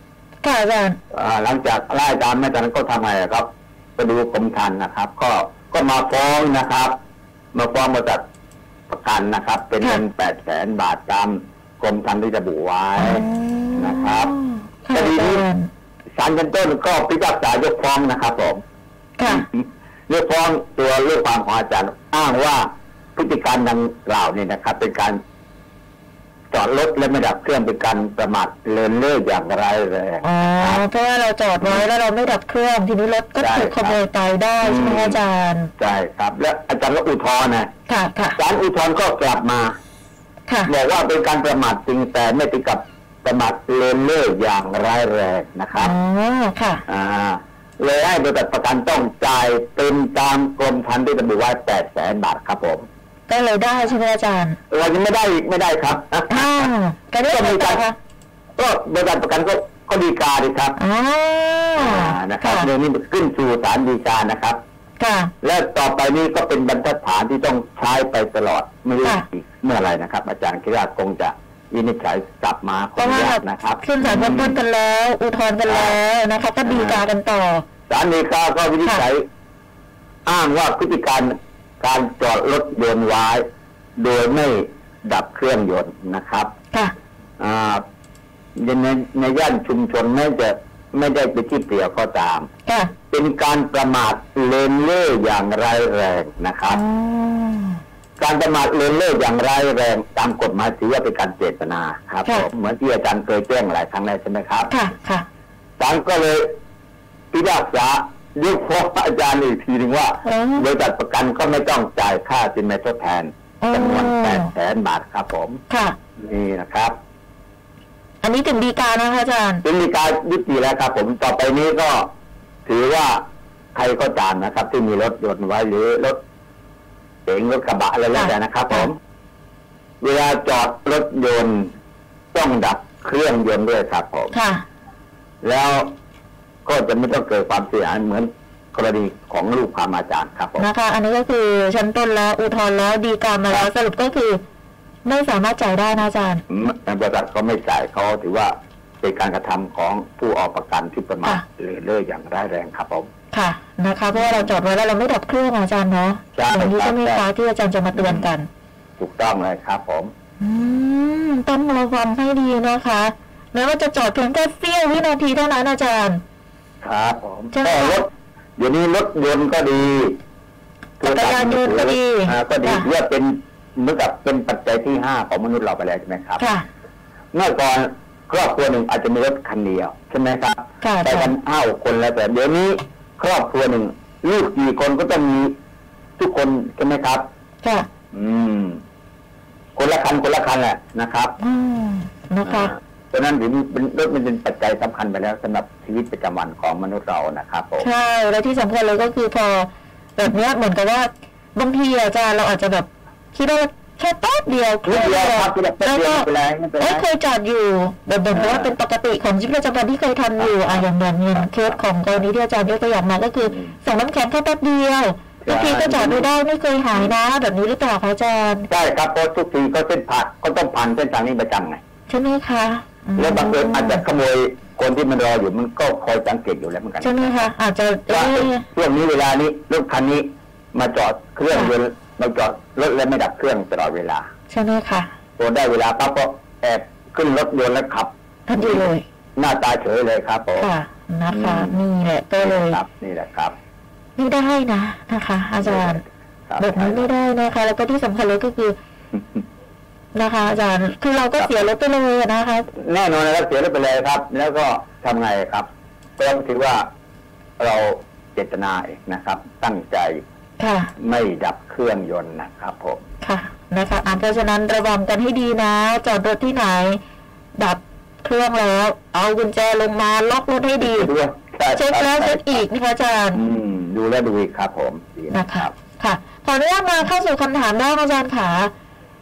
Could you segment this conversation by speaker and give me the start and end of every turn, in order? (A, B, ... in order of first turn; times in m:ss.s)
0:00.4-0:01.0 A
0:01.1-0:07.0 B
0:07.5-0:08.2 B
0:08.9-0:14.3 B
0:13.0-0:15.7 A
0:14.9-0:15.5 B
0:16.2-0:18.6 B
0:19.2-0:19.4 A
0:19.2-0:25.2 B
0:26.5-0:30.8 B
0:30.2-0:35.7 A
0:33.4-0:34.0 B
0:34.6-0:35.2 B
0:35.8-0:37.7 B
0:37.9-0:38.4 A
0:38.4-0:39.8 B
0:40.7-0:45.9 B
0:45.8-0:46.8 A
0:46.9-0:52.9 B
0:53.3-0:54.6 A
0:54.7-0:56.7 B
0:56.3-0:58.0 A
0:57.2-0:57.9 B
0:58.6-1:00.8 B
1:00.8-1:02.7 A
1:01.8-1:04.6 B
1:05.0-1:05.3 A
1:05.4-1:14.6 B
1:13.0-1:17.6 A
1:15.7-1:16.0 B
1:16.6-1:17.0 B
1:17.9-1:19.2 B
1:20.2-1:23.4 B
1:24.0-1:26.5 B
1:27.4-1:27.8 B
1:28.6-1:32.5 B
1:32.7-1:32.9 A
1:33.1-1:36.8 B
1:36.7-1:37.8 A
1:38.2-1:44.7 B
1:44.7-1:45.2 A
1:45.8-1:46.5 B
1:47.3-1:55.6 B
1:50.2-1:50.7 A
1:53.6-1:54.5 A
1:55.7-1:56.0 A
1:56.2-1:57.0 B
1:58.2-1:59.6 A
1:59.6-2:02.1 B
2:02.7-2:06.2 B
2:07.2-2:09.0 B
2:08.1-2:08.9 A
2:10.0-2:11.7 B
2:12.3-2:14.3 B
2:14.3-2:14.6 A
2:15.4-2:15.9 B
2:16.6-2:20.7 B
2:20.6-2:24.4 A
2:25.0-2:26.4 A
2:26.5-2:33.1 B
2:33.3-2:38.5 A
2:34.1-2:34.6 B
2:36.4-2:37.3 B
2:37.9-2:38.3 B
2:39.0-2:40.1 B
2:40.4-2:46.2 A
2:46.8-2:50.2 B
2:47.5-2:48.0 A
2:51.0-2:56.4 B
2:51.0-2:52.9 A
2:56.4-2:56.7 A
2:57.3-3:05.6 B
3:00.8-3:01.3 A
3:06.2-3:07.3 B
3:08.1-3:08.8 B
3:09.8-3:11.4 B
3:11.4-3:12.7 A
3:12.4-3:17.9 B
3:17.8-3:26.3 A
3:24.8-3:27.1 B
3:26.8-3:38.7 A
3:28.3-3:28.7 B
3:30.4-3:30.8 B
3:31.4-3:31.8 B
3:33.4-3:33.7 B
3:35.4-3:36.3 B
3:38.7-3:41.8 B
3:42.1-3:44.0 A
3:43.2-3:47.5 B
3:47.0-3:48.6 A
3:48.1-3:54.3 B
3:54.5-3:55.1 A
3:55.4-4:00.7 B
3:58.5-3:59.0 A
4:00.6-4:02.8 A
4:01.3-4:01.8 B
4:02.4-4:03.6 B
4:04.2-4:06.0 A
4:05.6-4:07.1 B
4:06.6-4:08.8 A
4:10.1-4:12.7 A
4:12.7-4:16.9 B
4:17.6-4:20.2 B
4:20.6-4:20.9 A
4:21.0-4:23.0 B
4:23.2-4:27.0 A
4:27.6-4:31.1 A
4:30.8-4:32.6 B
4:31.8-4:33.4 A
4:33.3-4:35.7 B
4:35.3-4:38.7 A